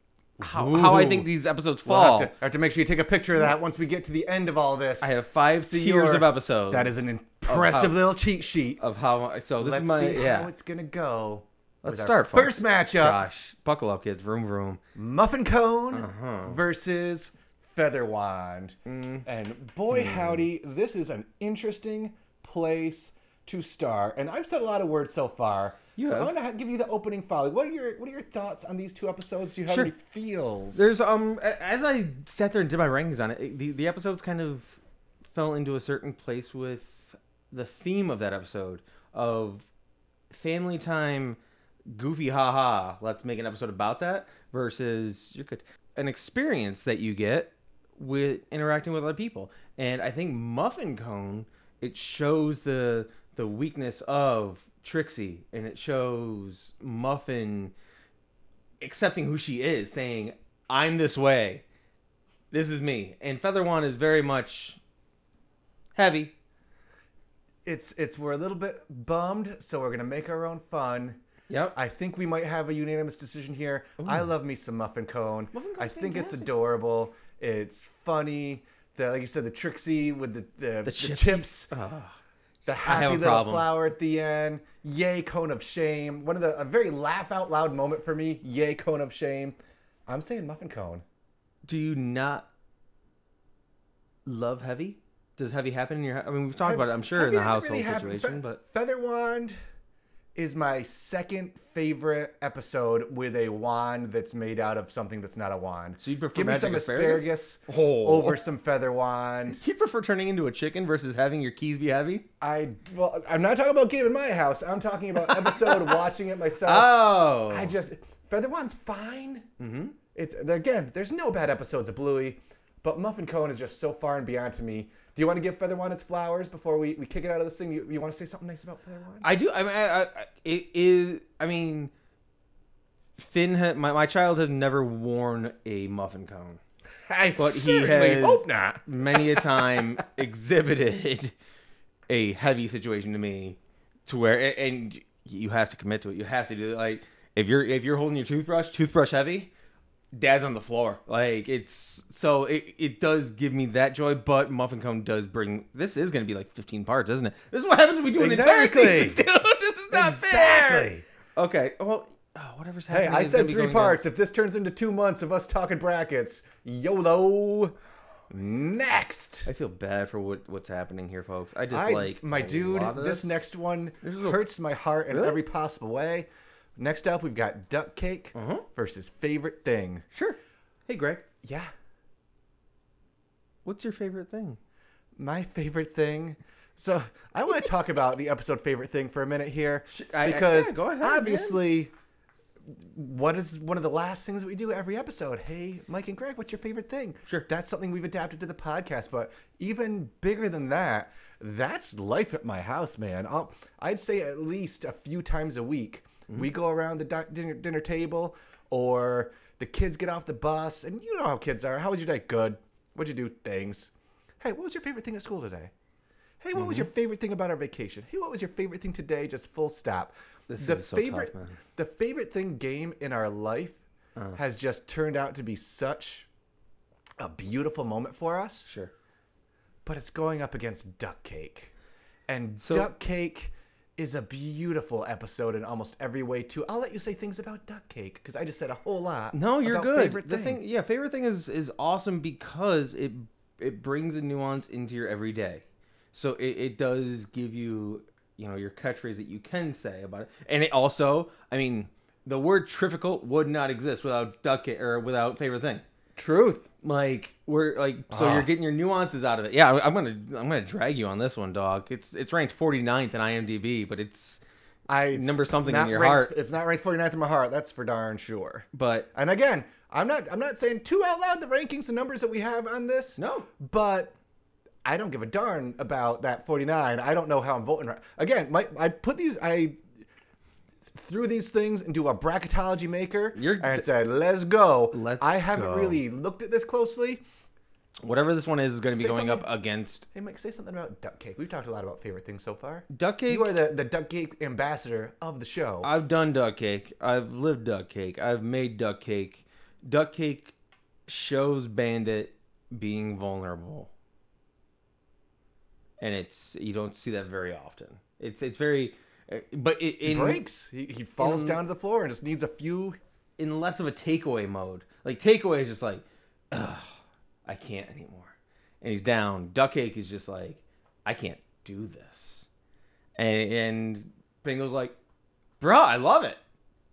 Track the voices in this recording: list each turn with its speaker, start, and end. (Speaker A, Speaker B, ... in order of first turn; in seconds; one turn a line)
Speaker A: 0.4-1.3
Speaker B: 0.4-2.3
Speaker A: 1.8-8.8
Speaker B: 5.0-8.0
Speaker B: 8.8-10.5
Speaker A: 9.6-13.2
Speaker B: 11.8-14.8
Speaker A: 14.9-30.9
Speaker B: 15.9-16.6
Speaker B: 18.9-19.2
Speaker B: 19.9-20.4
Speaker B: 25.9-26.3
Speaker B: 29.7-29.9
Speaker B: 30.7-34.8
Speaker B: 35.3-39.6
Speaker B: 40.3-41.4
Speaker B: 41.9-57.7
Speaker B: 58.8-61.6
Speaker B: 62.5-64.8
Speaker B: 65.9-66.3
Speaker A: 67.6-71.2
Speaker B: 71.5-71.8
Speaker A: 71.7-81.7
Speaker B: 74.0-74.3
Speaker B: 75.5-76.5
Speaker B: 80.8-82.2
Speaker A: 82.7-91.0
Speaker B: 82.8-83.7
Speaker B: 91.7-92.5
Speaker B: 94.2-98.6
Speaker A: 96.6-99.5
Speaker A: 100.3-109.6
Speaker B: 106.0-108.4
Speaker B: 109.5-112.2
Speaker A: 112.4-117.0
Speaker B: 115.2-116.0
Speaker B: 116.6-117.7
Speaker A: 117.5-119.5
Speaker B: 119.6-120.0
Speaker A: 120.1-129.3
Speaker B: 129.2-131.9
Speaker B: 133.2-136.6
Speaker A: 137.1-140.0
Speaker B: 137.4-141.3
Speaker B: 142.1-149.5
Speaker B: 150.1-164.0
Speaker A: 158.2-159.2
Speaker A: 159.9-161.0
Speaker A: 162.9-167.7
Speaker A: 168.3-169.5
Speaker B: 169.4-173.5
Speaker A: 171.7-180.0
Speaker B: 174.0-174.4
Speaker B: 175.1-175.4
Speaker B: 178.3-178.7
Speaker B: 180.1-181.2
Speaker A: 181.4-181.7
Speaker B: 183.6-184.6
Speaker A: 185.2-191.9
Speaker B: 189.9-191.6
Speaker A: 192.7-215.7
Speaker A: 216.4-223.8
Speaker B: 216.5-216.9
Speaker B: 220.5-221.6
Speaker A: 224.3-226.3
Speaker A: 227.2-228.7
Speaker B: 228.7-228.9
Speaker A: 229.8-231.7
Speaker A: 232.3-240.6
Speaker B: 232.6-232.9
Speaker B: 239.3-255.8
Speaker A: 256.1-256.7
Speaker B: 256.8-264.4
Speaker A: 258.1-258.5
Speaker A: 264.9-274.1
Speaker B: 265.1-266.3
Speaker B: 268.7-269.1
Speaker B: 273.2-273.5
Speaker A: 274.8-279.8
Speaker A: 280.9-287.2
Speaker B: 283.3-283.9
Speaker B: 284.9-286.0
Speaker B: 288.0-290.1
Speaker A: 288.9-289.5
Speaker A: 290.1-295.9
Speaker B: 292.9-293.5
Speaker B: 295.8-300.5
Speaker B: 301.1-303.9
Speaker B: 306.0-310.4
Speaker A: 310.0-313.0
Speaker B: 311.2-311.6
Speaker B: 313.4-316.9
Speaker B: 317.4-322.5
Speaker B: 323.2-324.9
Speaker B: 325.6-326.4